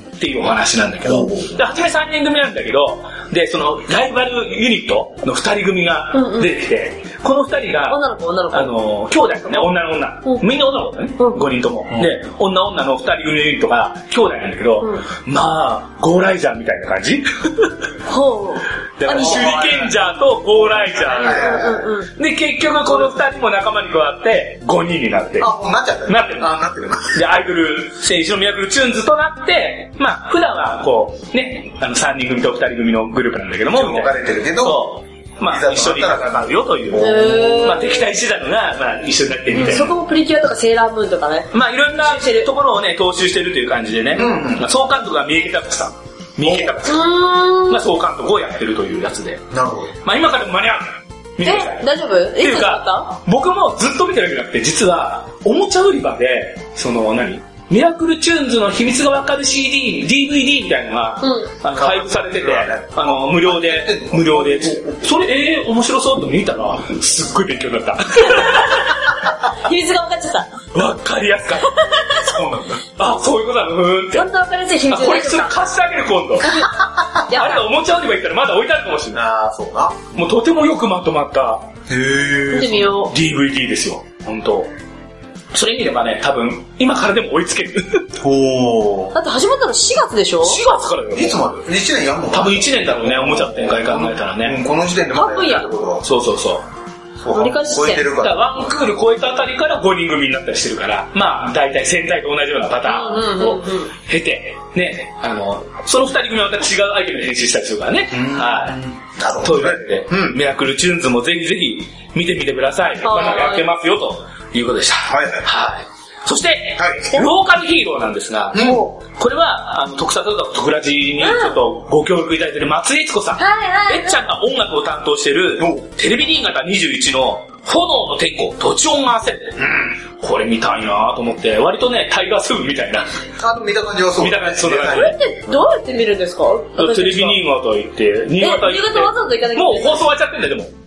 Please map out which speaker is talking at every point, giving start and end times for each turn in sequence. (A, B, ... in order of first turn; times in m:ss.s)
0:00.2-0:08.0 A
0:01.0-0:01.6 B
0:06.1-0:06.5 C
0:07.9-0:08.7 C
0:08.5-0:17.9 A
0:11.2-0:11.4 C
0:18.1-0:19.6 C
0:19.0-0:25.5 A
0:19.1-0:20.0 B
0:20.8-0:21.9 B
0:21.1-0:22.1 C
0:25.4-0:27.2 B
0:26.1-0:26.5 A
0:27.1-0:39.9 A
0:33.7-0:34.8 B
0:35.4-0:37.8 B
0:37.0-0:38.1 C
0:39.6-0:42.5 C
0:41.5-0:47.1 A
0:44.1-0:44.7 B
0:46.4-0:46.7 B
0:46.9-0:47.8 C
0:47.7-0:49.4 A
0:49.5-0:49.9 B
0:50.0-0:51.8 A
0:51.4-0:53.2 C
0:52.4-1:09.1 A
1:01.2-1:01.5 C
1:01.7-1:05.0 B
1:08.2-1:10.5 C
1:10.7-1:11.9 A
1:11.6-1:12.4 C
1:12.3-1:12.8 B
1:13.0-1:14.3 A
1:14.1-1:15.6 C
1:14.9-1:16.7 A
1:16.4-1:17.6 C
1:17.3-1:19.2 A
1:19.1-1:20.1 B
1:20.1-1:21.7 A
1:21.9-1:23.0 B
1:22.5-1:23.1 C
1:23.1-1:24.7 A
1:25.5-1:28.1 A
1:28.2-1:29.2 B
1:29.1-1:30.6 C
1:30.4-1:31.6 A
1:31.1-1:36.1 B
1:32.3-1:34.6 A
1:35.1-1:35.7 C
1:36.0-1:36.6 A
1:37.2-1:38.7 B
1:37.3-1:38.1 C
1:38.2-1:48.8 A
1:42.8-1:43.9 C
1:48.1-1:50.4 B
1:49.4-2:13.1 A
1:53.0-1:53.7 C
1:55.1-1:55.5 B
1:56.8-1:57.1 B
1:58.5-1:58.8 B
1:58.6-1:58.9 C
2:01.2-2:01.6 C
2:03.4-2:04.2 C
2:05.6-2:05.8 B
2:09.6-2:09.9 B
2:13.4-2:15.2 B
2:14.2-2:15.2 A
2:14.9-2:17.4 C
2:16.8-2:20.7 A
2:18.4-2:20.0 C